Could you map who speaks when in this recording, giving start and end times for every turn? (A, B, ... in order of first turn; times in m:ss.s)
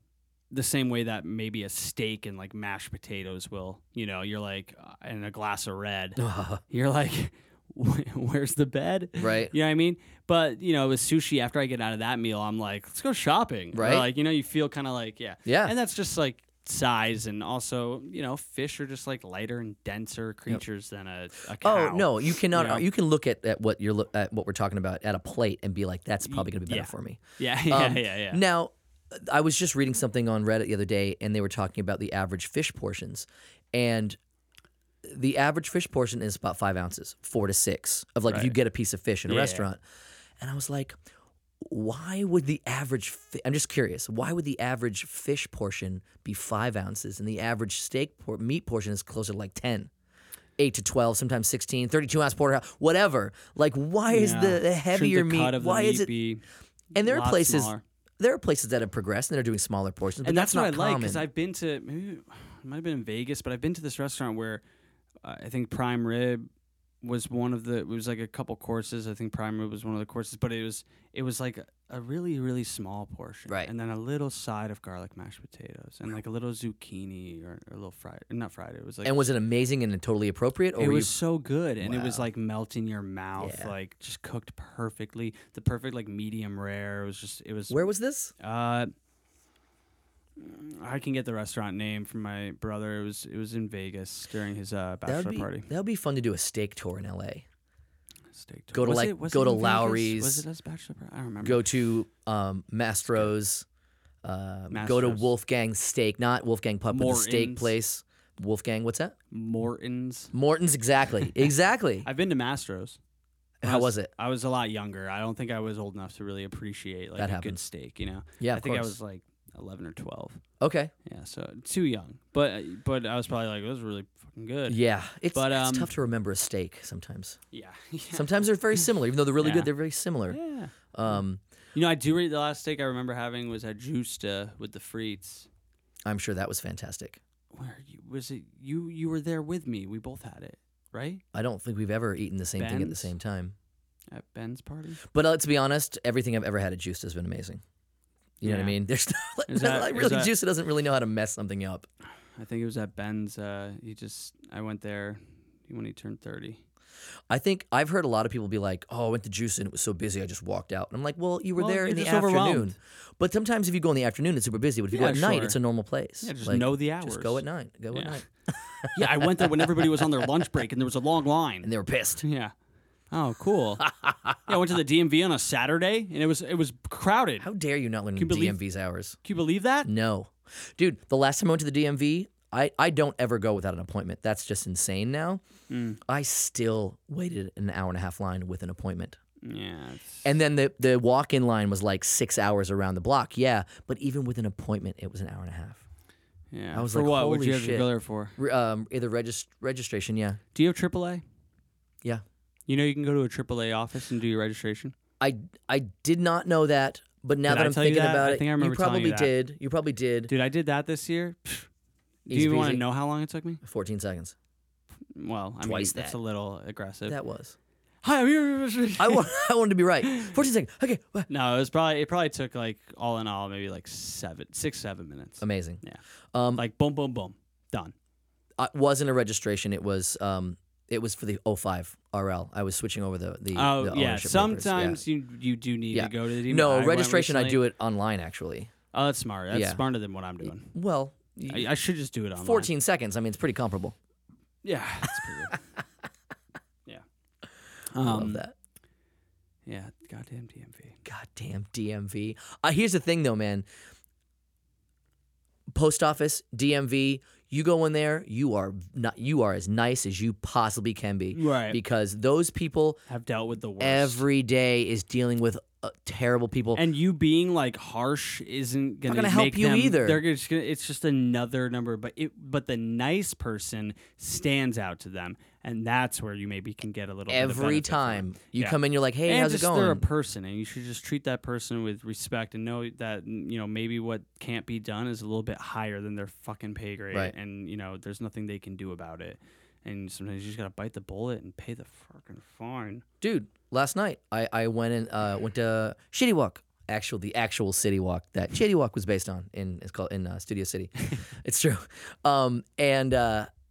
0:00.5-0:22.8 A
0:06.2-0:06.6 B
0:09.2-0:09.5 B
0:13.7-0:14.1 B
0:15.4-0:15.7 B
0:21.6-0:34.2 B
0:26.2-0:28.4 A
0:35.0-0:39.8 B
0:38.3-0:38.5 A
0:39.3-0:39.6 A
0:40.4-0:41.0 B
0:41.6-0:49.9 B
0:50.6-0:56.1 B
0:54.1-0:56.4 A
0:56.9-1:01.2 B
0:57.0-0:57.8 A
1:00.2-1:04.6 A
1:05.2-1:06.5 A
1:07.0-1:19.3 A
1:19.0-1:21.1 B
1:20.8-1:27.8 A
1:21.8-1:22.3 B
1:23.4-1:23.7 B
1:27.7-1:28.3 B
1:28.4-1:28.9 A
1:30.4-1:35.7 A
1:35.0-1:37.4 B
1:38.3-1:41.6 A
1:38.7-1:40.4 B
1:41.4-1:43.6 B
1:44.2-1:49.1 B
1:44.7-1:45.3 A
1:46.9-1:47.8 A
1:49.3-1:50.3 A
1:50.3-1:52.1 B
1:51.2-1:51.5 A
1:52.0-1:53.0 A
1:53.6-1:54.1 B
1:53.6-2:00.4 A
1:57.2-1:57.6 B
1:58.4-1:59.0 B
2:00.6-2:00.9 B
2:01.0-2:04.8 A
2:04.7-2:07.4 B
2:05.3-2:05.9 A
2:07.5-2:08.8 A
2:08.1-2:10.4 B
2:09.4-2:09.7 A
2:10.3-2:11.2 A
2:10.9-2:11.4 B
2:11.7-2:15.5 A
2:16.0-2:17.2 B
2:17.5-2:21.2 A
2:21.3-2:23.5 B
2:22.6-2:23.1 A
2:24.1-2:25.0 A
2:25.1-2:27.6 B
2:28.4-2:28.8 A
2:28.4-2:31.9 B
2:29.5-2:30.3 A
2:32.4-2:36.6 A
2:37.3-2:50.3 B
2:41.6-2:42.7 A
2:44.9-2:45.6 A
2:46.2-2:47.4 A
2:47.9-2:48.2 A
2:48.9-2:51.7 A
2:51.6-2:52.2 B
2:52.2-2:52.5 A
2:53.1-2:53.9 A
2:53.8-2:54.4 B
2:54.4-2:57.5 A
2:57.4-2:59.2 B
2:58.2-2:58.6 A
2:59.2-2:59.9 A
2:59.8-3:05.4 B
3:05.7-3:06.0 A
3:06.0-3:09.2 B
3:09.4-3:10.3 A
3:10.2-3:15.8 B
3:16.5-3:18.4 A
3:16.7-3:20.4 B
3:20.5-3:21.2 A
3:22.7-3:24.9 A
3:25.2-3:30.3 B
3:27.5-3:29.3 A
3:30.3-3:31.7 A
3:32.2-3:33.6 A
3:32.3-3:32.8 B
3:33.6-3:34.3 B
3:35.1-3:37.2 A
3:35.6-3:36.2 B
3:37.1-3:37.6 B
3:38.0-3:39.3 A
3:39.0-3:41.3 B
3:40.0-3:40.3 A
3:41.3-3:46.0 A
3:45.4-3:45.8 B
3:46.3-3:46.6 B
3:46.5-3:47.9 A
3:48.6-3:55.0 B
3:53.5-3:57.6 A
3:55.9-3:58.7 B
3:58.9-4:00.7 A
3:59.5-3:59.8 B
4:00.4-4:01.7 B
4:01.5-4:02.7 A
4:02.4-4:04.0 B
4:04.6-4:05.6 A
4:07.9-4:08.4 A
4:08.0-4:08.5 B
4:09.6-4:11.0 A
4:11.0-4:13.6 B
4:15.7-4:23.0 B
4:21.3-4:21.8 A
4:23.1-4:24.2 A
4:23.8-4:26.8 B
4:26.7-4:53.0 A
4:29.1-4:30.2 B
4:37.3-4:40.0 B
4:53.2-5:03.5 B